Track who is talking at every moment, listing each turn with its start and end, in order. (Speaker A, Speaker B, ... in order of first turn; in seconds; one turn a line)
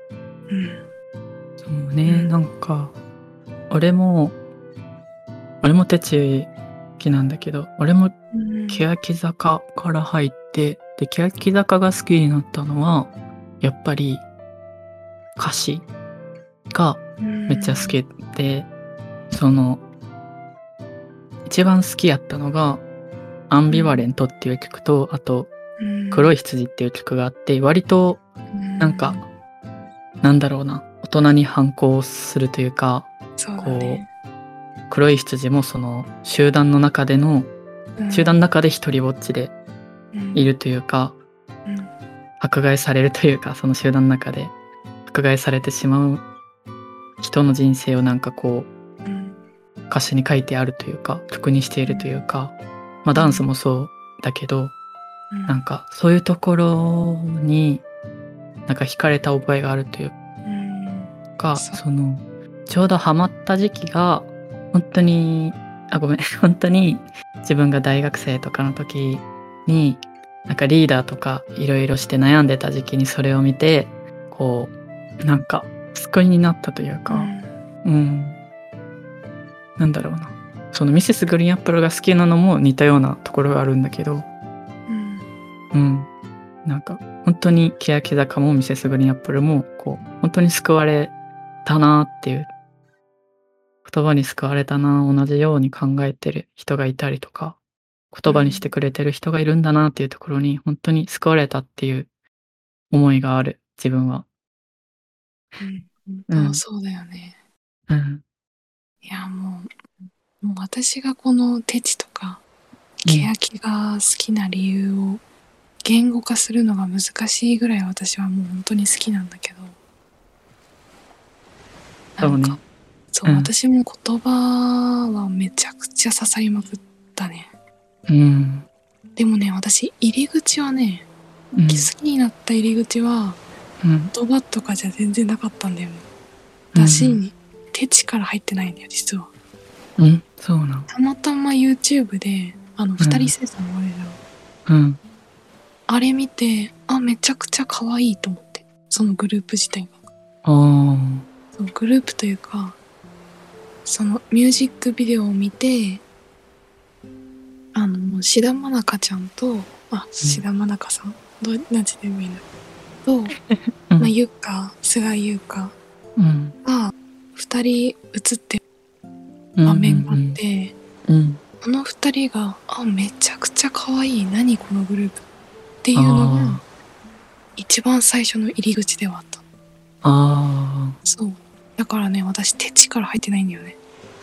Speaker A: 0.5-0.8
Speaker B: 1.6-2.9
Speaker A: 2.0-2.3
Speaker B: 3.7-4.3
Speaker B: 5.6-8.2
Speaker A: 8.3-8.9
Speaker B: 8.7-13.1
Speaker B: 13.6-14.2
Speaker B: 15.4-15.9
Speaker B: 16.7-18.7
Speaker A: 17.2-18.0
Speaker B: 19.3-19.8
Speaker B: 21.4-22.8
Speaker B: 23.5-25.5
Speaker A: 23.7-24.1
Speaker A: 25.8-26.3
Speaker B: 26.1-28.2
Speaker A: 28.5-29.2
Speaker B: 28.8-29.2
Speaker B: 30.2-34.0
Speaker A: 33.4-34.1
Speaker B: 34.9-37.5
Speaker A: 38.0-38.4
Speaker B: 38.1-39.5
Speaker A: 40.1-40.5
Speaker B: 40.3-41.1
Speaker A: 41.6-41.9
Speaker B: 42.4-44.5
Speaker B: 45.1-46.2
Speaker B: 47.2-48.7
Speaker A: 49.0-49.5
Speaker B: 49.9-54.7
Speaker A: 51.8-52.2
Speaker A: 53.1-53.5
Speaker A: 55.3-55.6
Speaker B: 55.5-57.8
Speaker B: 58.7-60.1
Speaker A: 60.4-61.8
Speaker B: 61.4-77.3
Speaker A: 77.1-77.5
Speaker B: 77.8-78.4
Speaker B: 79.8-84.3
Speaker A: 84.9-85.3
Speaker B: 85.7-86.1
Speaker B: 86.6-91.1
Speaker B: 91.6-92.5
Speaker B: 93.8-97.6
Speaker B: 98.1-102.1
Speaker A: 98.2-98.7
Speaker B: 102.9-104.2
Speaker A: 105.6-107.4
Speaker B: 106.3-106.6
Speaker B: 107.9-108.2
Speaker A: 109.0-112.4
Speaker A: 113.0-115.2
Speaker A: 115.8-119.8
Speaker A: 122.2-122.6
Speaker B: 122.2-122.6
Speaker A: 123.1-127.5
Speaker B: 123.2-123.5
Speaker B: 128.1-128.7
Speaker A: 129.2-131.1
Speaker B: 131.5-131.9
Speaker A: 131.6-133.4
Speaker B: 133.8-134.1
Speaker A: 134.1-136.1
Speaker B: 136.7-137.2
Speaker A: 136.7-139.3
Speaker B: 140.0-140.9
Speaker A: 140.9-144.2
Speaker B: 143.0-143.3
Speaker B: 144.7-145.0
Speaker A: 145.9-150.0
Speaker B: 150.4-151.2
Speaker A: 151.5-152.8
Speaker A: 153.8-156.0
Speaker A: 157.7-162.4
Speaker A: 163.0-163.3
Speaker B: 163.5-164.1
Speaker A: 164.0-165.8
Speaker B: 166.2-166.6
Speaker A: 166.6-168.6
Speaker B: 169.6-170.4
Speaker A: 169.7-170.7
Speaker B: 171.1-171.4
Speaker A: 171.6-175.2
Speaker A: 175.8-176.6
Speaker B: 175.9-176.6
Speaker A: 177.6-179.4
Speaker B: 180.0-181.0
Speaker A: 181.0-183.8